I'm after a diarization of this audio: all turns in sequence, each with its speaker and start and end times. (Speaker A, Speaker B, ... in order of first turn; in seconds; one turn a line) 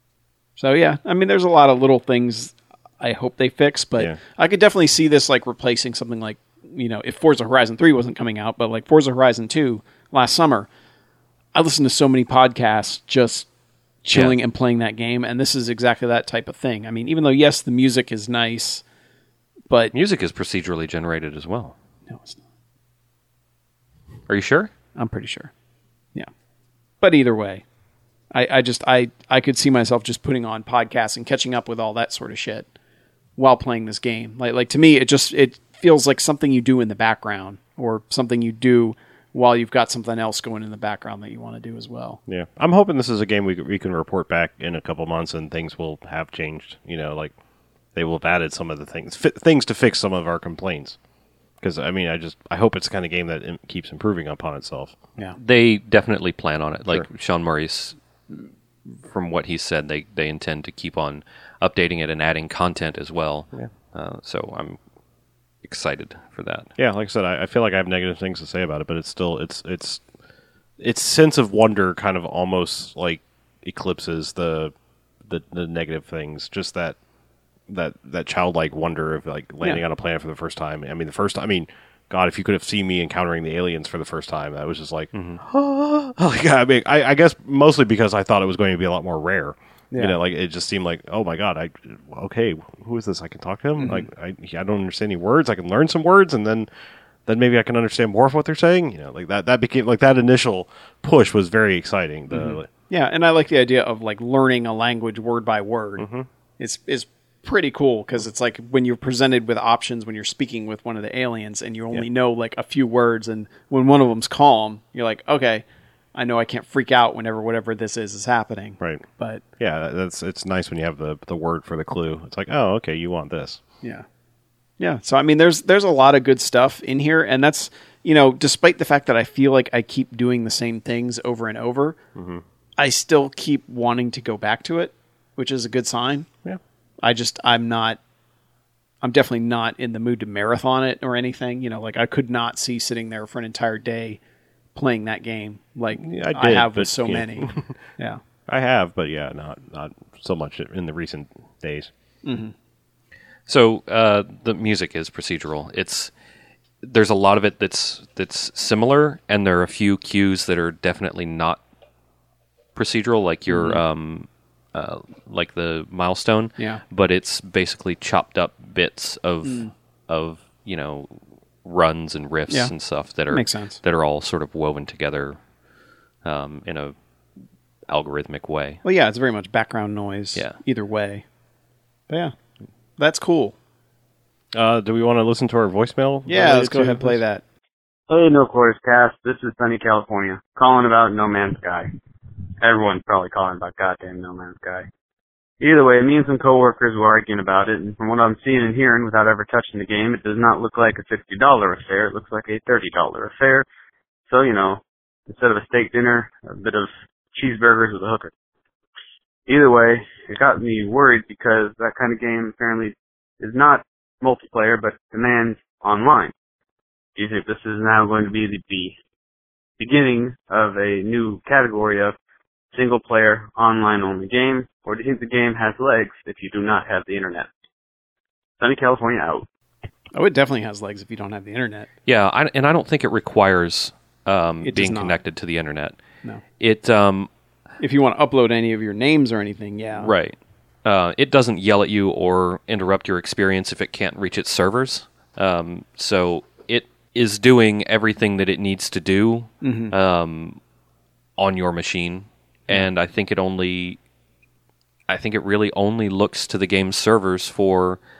Speaker A: 0.6-10.7
Speaker A: 11.5-13.5
Speaker A: 14.0-18.8
Speaker B: 19.9-21.7
Speaker A: 22.1-22.4
Speaker B: 24.3-24.7
Speaker A: 24.9-25.5
Speaker A: 27.0-27.6
Speaker A: 28.3-32.7
Speaker A: 33.4-42.2
Speaker C: 42.3-47.3
Speaker C: 47.9-51.0
Speaker C: 51.6-55.0
Speaker B: 55.4-64.8
Speaker B: 65.6-66.7
Speaker C: 66.8-70.0
Speaker C: 70.8-74.7
Speaker C: 75.2-77.0
Speaker C: 77.7-96.7
Speaker B: 85.1-85.4
Speaker A: 93.8-94.0
Speaker C: 97.2-102.7
Speaker A: 102.3-119.4
Speaker C: 106.0-106.3
Speaker C: 119.6-123.6
Speaker A: 124.8-132.0
Speaker C: 132.2-132.4
Speaker A: 132.8-136.3
Speaker A: 137.0-138.0
Speaker A: 139.0-144.2
Speaker A: 144.7-148.2
Speaker C: 146.0-147.7
Speaker C: 148.5-151.9
Speaker A: 152.2-152.5
Speaker B: 153.5-156.1
Speaker B: 156.8-161.6
Speaker B: 162.7-175.4
Speaker A: 163.5-163.8
Speaker A: 169.4-169.7
Speaker A: 173.3-173.8
Speaker B: 176.2-176.9
Speaker B: 177.9-178.8
Speaker A: 178.8-181.2
Speaker A: 182.1-182.3
Speaker A: 183.0-183.6
Speaker C: 184.5-187.2
Speaker A: 186.3-187.4
Speaker D: 188.1-191.9
Speaker D: 192.6-194.9
Speaker D: 195.6-203.7
Speaker D: 204.3-208.3
Speaker D: 209.5-216.3
Speaker D: 217.2-218.9
Speaker D: 219.8-222.2
Speaker D: 222.7-227.5
Speaker D: 228.6-229.4
Speaker A: 230.1-231.9
Speaker B: 232.1-236.0
Speaker A: 234.6-235.1
Speaker B: 236.6-237.3
Speaker A: 237.8-240.1
Speaker B: 239.9-250.6
Speaker A: 249.6-249.9
Speaker B: 251.4-254.0
Speaker B: 255.1-258.0